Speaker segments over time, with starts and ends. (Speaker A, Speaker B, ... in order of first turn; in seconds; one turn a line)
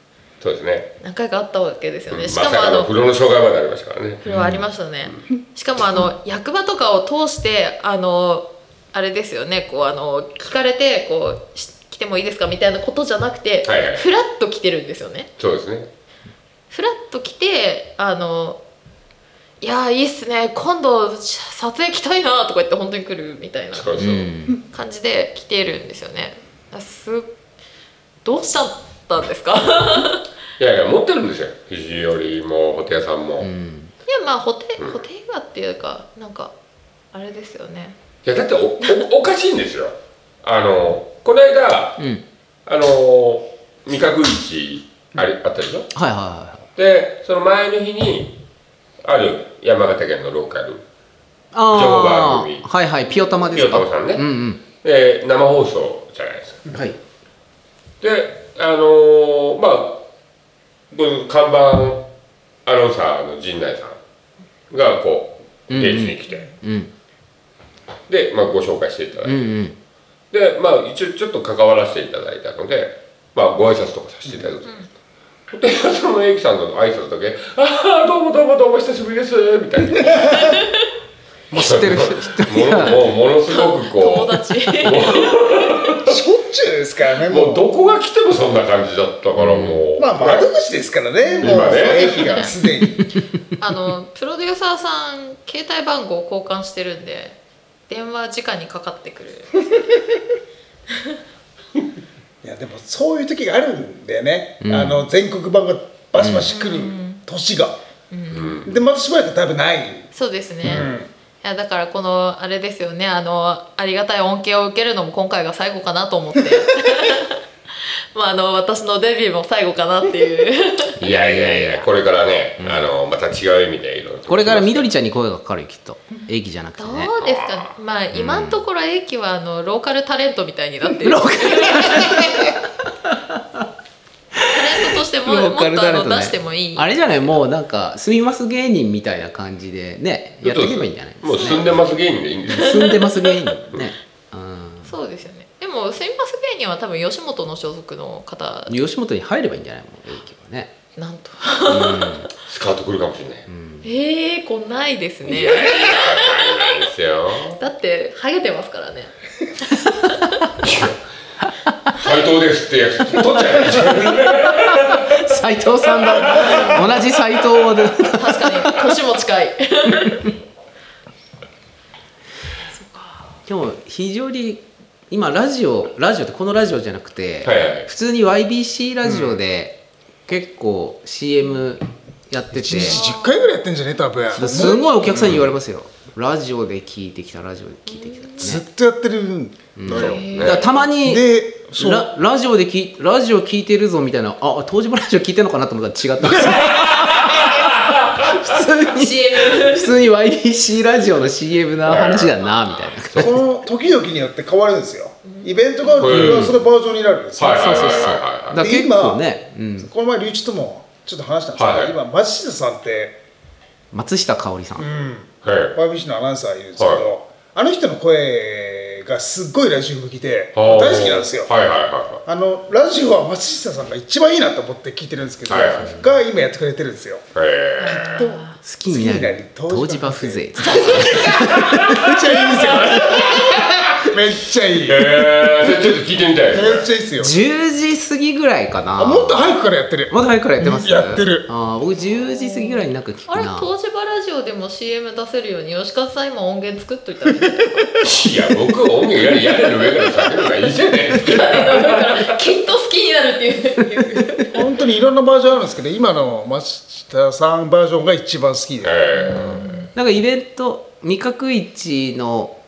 Speaker A: 0.4-0.9
Speaker B: 1.0-2.9
Speaker A: 2.1-4.3
Speaker C: 4.3-4.7
Speaker B: 4.3-15.3
Speaker A: 13.6-14.1
Speaker A: 15.4-15.9
Speaker B: 16.7-18.6
Speaker B: 19.6-27.3
Speaker A: 23.7-24.2
Speaker C: 24.0-24.6
Speaker B: 28.2-30.2
Speaker A: 30.6-33.5
Speaker C: 33.4-33.9
Speaker B: 34.1-36.5
Speaker B: 37.1-38.0
Speaker A: 38.2-42.0
Speaker C: 42.0-42.2
Speaker A: 42.7-45.9
Speaker C: 45.9-46.6
Speaker A: 46.8-48.4
Speaker A: 49.0-50.8
Speaker C: 51.5-54.6
Speaker A: 51.7-52.7
Speaker A: 53.5-56.7
Speaker C: 56.7-57.0
Speaker A: 58.0-60.0
Speaker A: 60.9-62.1
Speaker A: 62.6-64.0
Speaker A: 64.7-66.5
Speaker C: 65.7-66.9
Speaker A: 68.1-69.4
Speaker C: 69.2-69.8
Speaker A: 70.3-74.7
Speaker A: 75.5-80.6
Speaker D: 80.0-80.6
Speaker C: 81.5-83.1
Speaker A: 81.5-86.2
Speaker B: 83.5-85.9
Speaker D: 86.0-87.7
Speaker A: 87.2-90.5
Speaker C: 89.4-89.8
Speaker D: 90.0-93.1
Speaker B: 91.3-92.5
Speaker A: 91.4-92.5
Speaker B: 93.6-100.0
Speaker B: 100.9-101.2
Speaker D: 102.4-107.8
Speaker C: 104.6-105.0
Speaker A: 106.2-106.5
Speaker B: 106.5-107.2
Speaker B: 108.1-108.6
Speaker A: 108.3-108.8
Speaker D: 108.6-110.1
Speaker B: 110.1-110.9
Speaker D: 110.7-111.1
Speaker B: 111.4-120.9
Speaker C: 121.0-121.9
Speaker A: 121.0-124.9
Speaker C: 122.6-122.9
Speaker C: 124.3-127.1
Speaker B: 126.8-132.4
Speaker A: 127.2-127.7
Speaker C: 128.1-128.6
Speaker C: 131.0-133.7
Speaker C: 134.3-141.8
Speaker B: 134.5-137.1
Speaker A: 140.4-143.0
Speaker B: 141.3-141.6
Speaker C: 142.5-144.9
Speaker B: 142.6-143.3
Speaker B: 144.8-148.8
Speaker C: 148.7-150.8
Speaker B: 151.0-152.2
Speaker C: 151.7-152.3
Speaker A: 152.5-153.5
Speaker C: 153.5-153.9
Speaker B: 153.8-156.9
Speaker A: 155.2-157.6
Speaker B: 157.5-159.1
Speaker B: 159.6-160.4
Speaker A: 160.6-161.0
Speaker A: 161.9-165.1
Speaker C: 164.5-168.8
Speaker B: 166.4-166.8
Speaker B: 168.0-170.3
Speaker B: 172.7-173.2
Speaker C: 173.5-183.0
Speaker A: 177.4-177.9
Speaker D: 179.0-179.4
Speaker D: 182.5-185.4
Speaker B: 182.8-183.5
Speaker C: 184.3-188.6
Speaker B: 184.4-184.8
Speaker A: 185.1-185.5
Speaker B: 187.9-188.6
Speaker D: 188.4-190.3
Speaker C: 189.8-203.4
Speaker A: 189.9-190.7
Speaker B: 190.0-190.7
Speaker D: 191.0-192.1
Speaker A: 196.7-198.3
Speaker B: 198.9-200.0
Speaker A: 201.8-202.4
Speaker D: 203.2-209.2
Speaker B: 205.2-206.1
Speaker A: 206.0-206.5
Speaker C: 206.1-206.6
Speaker A: 207.4-208.6
Speaker C: 207.5-209.9
Speaker B: 207.7-208.2
Speaker D: 209.8-213.2
Speaker A: 211.6-211.9
Speaker C: 213.9-214.9
Speaker D: 214.8-221.5
Speaker A: 215.4-215.8
Speaker A: 216.8-217.0
Speaker A: 220.6-222.2
Speaker D: 222.3-227.2
Speaker A: 225.5-226.0
Speaker A: 227.3-228.3
Speaker B: 227.8-228.6
Speaker D: 228.0-235.3
Speaker C: 228.6-232.4
Speaker B: 230.7-231.4
Speaker A: 231.3-231.9
Speaker B: 232.9-233.7
Speaker A: 234.7-236.9
Speaker D: 236.5-237.4
Speaker C: 237.2-239.5
Speaker D: 239.0-241.5
Speaker C: 240.1-243.7
Speaker B: 242.3-247.9
Speaker A: 248.0-252.4
Speaker B: 251.3-254.6
Speaker D: 254.5-259.0
Speaker A: 258.8-259.9
Speaker B: 259.1-259.9
Speaker C: 259.9-262.6